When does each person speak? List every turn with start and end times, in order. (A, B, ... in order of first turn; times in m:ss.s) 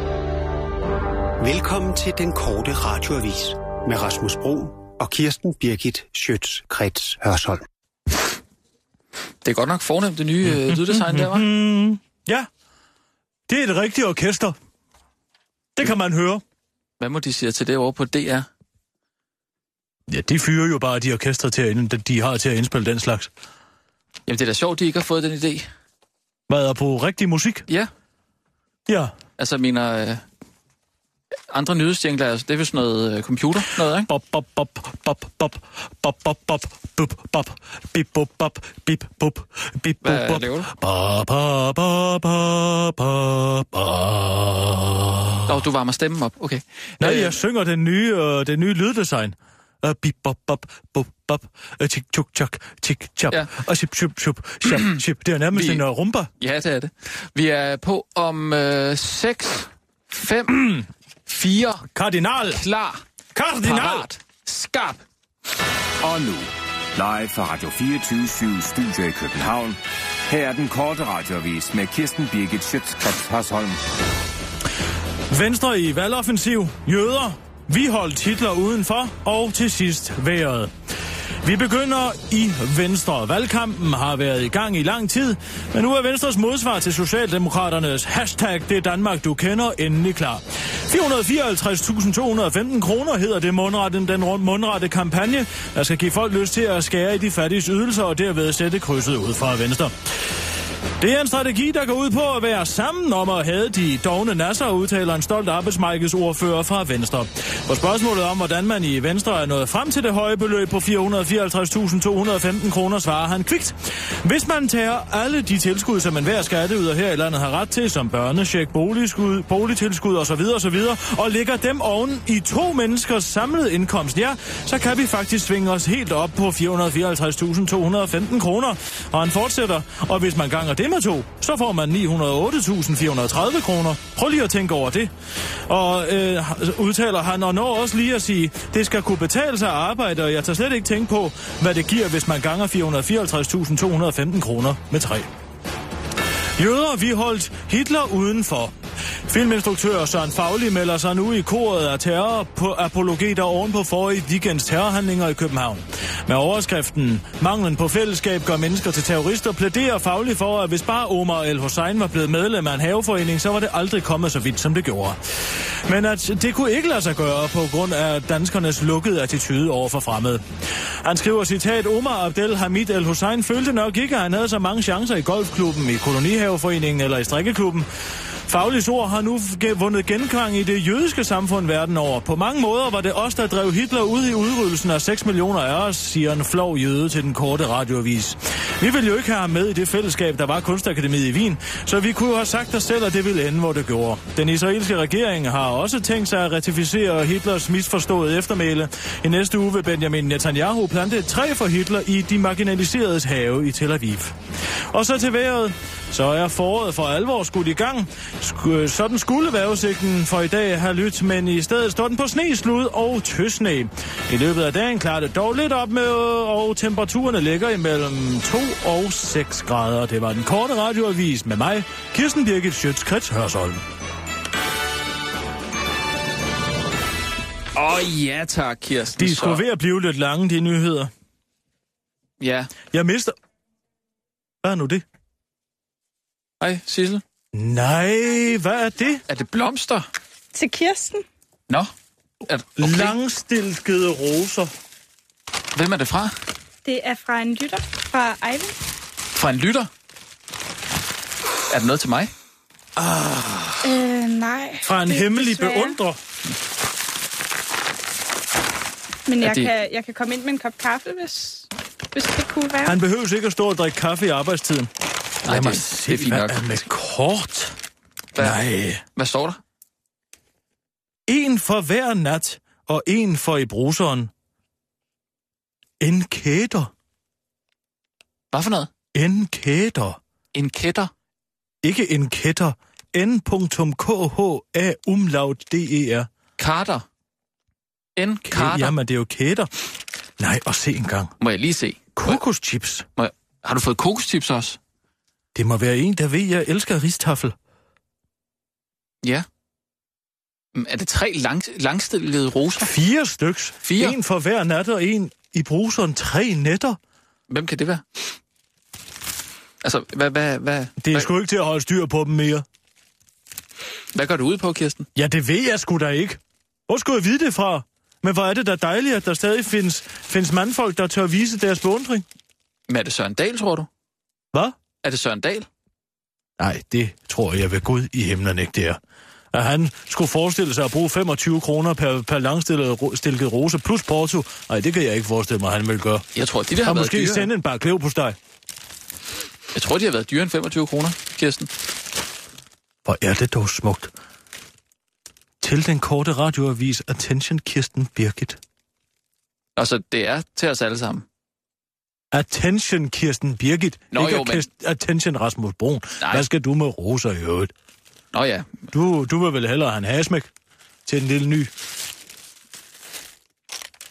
0:01.4-0:07.6 A
0:09.4-0:11.5 B
0:10.4-0:12.5 C
0:13.5-0:14.6 C
0:15.8-0:16.4 C
0:17.0-0:18.5 B
0:20.1-0:23.3 C
0:24.3-0:25.7 B
0:26.5-0:27.7 C
0:28.9-0:29.1 C
0:29.4-0:30.2 B
0:31.5-0:34.1 B
0:34.1-0:45.6 C
0:40.0-0:40.7 B
0:45.5-0:47.4 B
0:47.0-0:56.3 C
0:54.6-0:55.8 B
0:56.4-1:01.9 B
1:00.5-1:00.8 C
1:01.9-1:02.6 C
1:02.5-1:03.0 B
1:03.3-1:04.1 C
1:03.6-1:05.0 B
1:06.0-1:13.8 D
1:15.3-1:20.7 C
1:21.4-1:39.9 C
1:41.0-2:15.1 C
2:15.7-2:25.3 C
2:26.6-2:28.8 C
2:29.3-2:45.2 C
2:45.9-2:50.4 C
2:51.0-2:57.9 C
2:58.5-3:24.4 C
3:24.9-3:43.8 C
3:47.8-3:49.6 B
3:49.2-3:51.1 C
3:52.4-3:52.7 B
3:52.9-3:53.4 C
3:54.6-3:55.0 C
3:56.6-3:57.2 B
3:57.5-3:59.2 C
3:59.3-4:00.1 B
4:00.5-4:01.2 E
4:02.5-4:03.2 B
4:02.8-4:04.7 C
4:05.8-4:06.3 B
4:06.8-4:08.8 E
4:09.3-4:09.9 B
4:11.7-4:12.3 B
4:13.0-4:13.9 C
4:13.8-4:16.0 E
4:14.8-4:16.2 C
4:19.3-4:23.0 E
4:19.4-4:19.7 B
4:22.8-4:24.9 C
4:25.4-4:27.8 C
4:25.4-4:26.6 B
4:28.4-4:28.6 B
4:28.4-4:29.0 C
4:29.1-4:29.6 B
4:31.3-4:34.3 C
4:36.0-4:36.9 C
4:38.5-4:38.9 B
4:39.1-4:40.2 C
4:40.5-4:41.1 B
4:41.8-4:46.3 C
4:46.6-4:47.0 B
4:48.2-4:48.9 B
4:48.5-4:49.7 C
4:50.4-4:51.3 C
4:51.4-4:52.4 B
4:52.2-4:53.1 C
4:53.2-4:54.8 B
4:55.6-4:57.6 C
5:00.8-5:02.9 B
5:02.8-5:07.0 C
5:03.8-5:04.2 B
5:07.5-5:08.0 B
5:09.8-5:11.3 B
5:11.0-5:12.6 C
5:14.1-5:15.1 B
5:15.2-5:22.3 C
5:22.9-5:23.9 B
5:25.0-5:25.7 B
5:26.6-5:29.0 C
5:29.5-5:36.3 C
5:36.4-5:37.5 B
5:36.8-5:38.4 C
5:39.7-5:41.7 B
5:43.0-5:44.1 C
5:45.6-5:48.6 C
5:49.8-5:51.2 B
5:52.3-5:57.7 C
5:54.1-5:54.7 B
5:56.2-5:56.5 B
5:58.3-5:58.8 B
5:58.9-6:00.5 C
6:01.1-6:01.7 C